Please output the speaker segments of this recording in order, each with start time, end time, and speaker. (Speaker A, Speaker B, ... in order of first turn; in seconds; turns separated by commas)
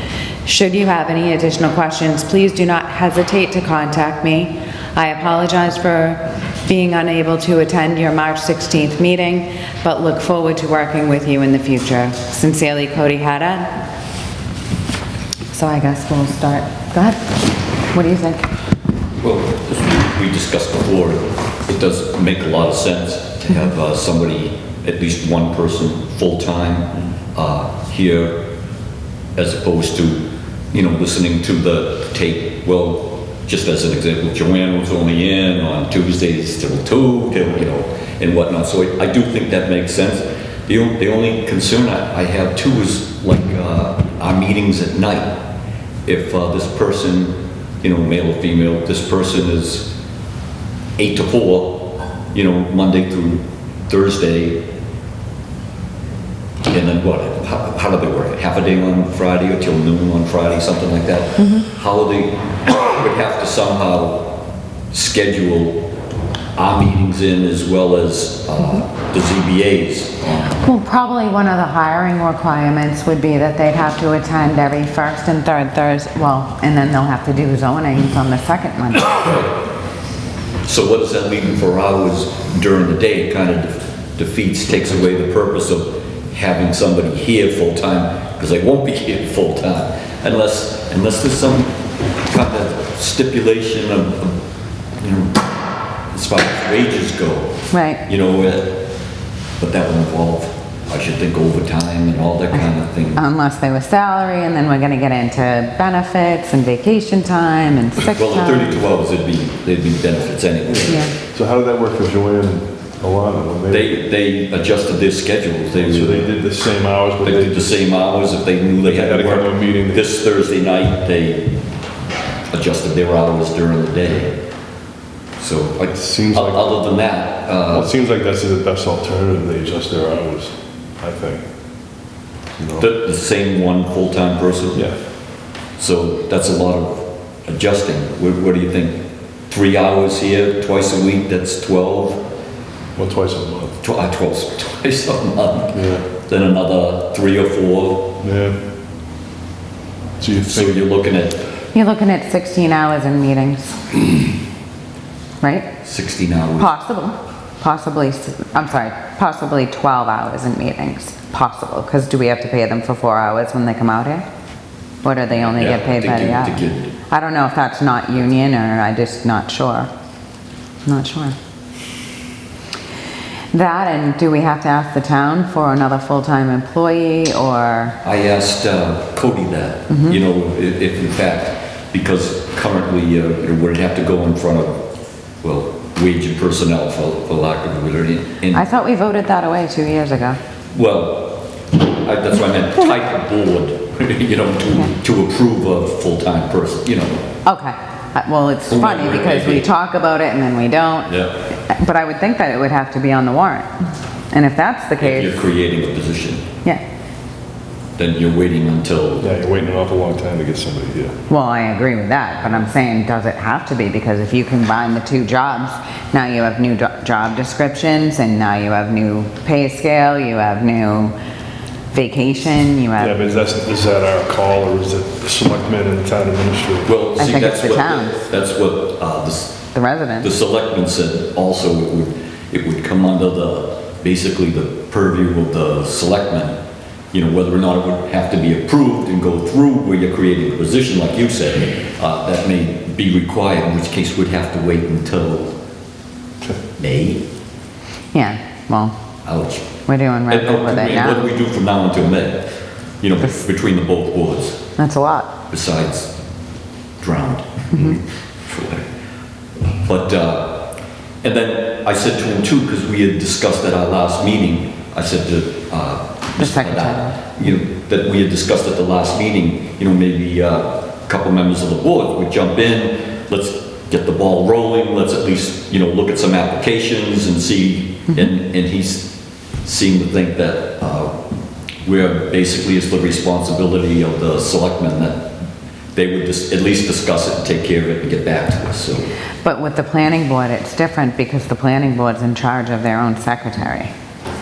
Speaker A: 0.4-13.8, Speaker A: 15.5-17.4, Speaker A: 17.9-18.5, Speaker B: 19.2-28.4, Speaker B: 29.4-45.4, Speaker B: 46.0-49.9, Speaker B: 51.0-54.6, Speaker B: 56.7-64.3, Speaker B: 64.9-65.8, Speaker B: 66.5-70.6, Speaker A: 70.6-79.2, Speaker B: 79.1-79.5, Speaker B: 80.6-91.7, Speaker B: 92.3-94.3, Speaker B: 95.0-95.5, Speaker B: 96.1-98.8, Speaker A: 97.7-98.0, Speaker B: 99.6-103.2, Speaker A: 103.1-108.8, Speaker B: 108.1-111.0, Speaker C: 110.7-114.0, Speaker A: 110.8-111.1, Speaker B: 113.7-116.3, Speaker C: 115.8-117.8, Speaker B: 117.2-121.5, Speaker C: 118.8-120.1, Speaker B: 122.5-124.4, Speaker B: 125.4-127.9, Speaker C: 125.9-126.8, Speaker C: 127.7-131.4, Speaker C: 132.6-132.9, Speaker B: 132.8-134.8, Speaker B: 135.8-142.2, Speaker C: 142.9-143.8, Speaker B: 143.8-148.1, Speaker C: 145.7-146.0, Speaker C: 148.2-148.6, Speaker C: 150.2-150.8, Speaker B: 150.5-151.4, Speaker A: 151.7-154.0, Speaker A: 155.4-155.7, Speaker B: 155.8-156.7, Speaker A: 156.6-164.2, Speaker A: 165.0-169.9, Speaker B: 165.3-166.9, Speaker A: 170.8-171.3, Speaker A: 173.5-178.0, Speaker B: 178.0-184.8, Speaker A: 179.9-180.2, Speaker B: 185.4-188.7, Speaker A: 188.5-190.4, Speaker B: 190.7-191.5, Speaker B: 192.0-197.2, Speaker A: 197.4-203.7, Speaker B: 198.7-199.7, Speaker B: 201.1-201.4, Speaker A: 204.3-205.3, Speaker B: 205.0-206.4, Speaker B: 208.0-209.3, Speaker C: 209.2-211.1, Speaker A: 211.3-221.1, Speaker A: 221.9-223.2, Speaker C: 223.0-226.9, Speaker B: 226.8-229.6, Speaker A: 227.2-228.1, Speaker A: 229.7-230.3, Speaker B: 230.2-236.6, Speaker B: 237.1-245.5, Speaker B: 246.8-247.2, Speaker A: 248.1-248.9, Speaker B: 249.2-249.7, Speaker A: 249.8-251.3, Speaker B: 250.3-252.4, Speaker B: 253.0-254.6, Speaker A: 254.8-255.4, Speaker B: 255.5-256.1, Speaker B: 257.0-258.8, Speaker A: 257.7-258.0, Speaker B: 259.8-260.7, Speaker B: 261.2-279.1, Speaker A: 266.4-267.2, Speaker B: 279.6-281.1, Speaker B: 281.8-285.3, Speaker B: 285.9-289.1, Speaker A: 289.4-293.9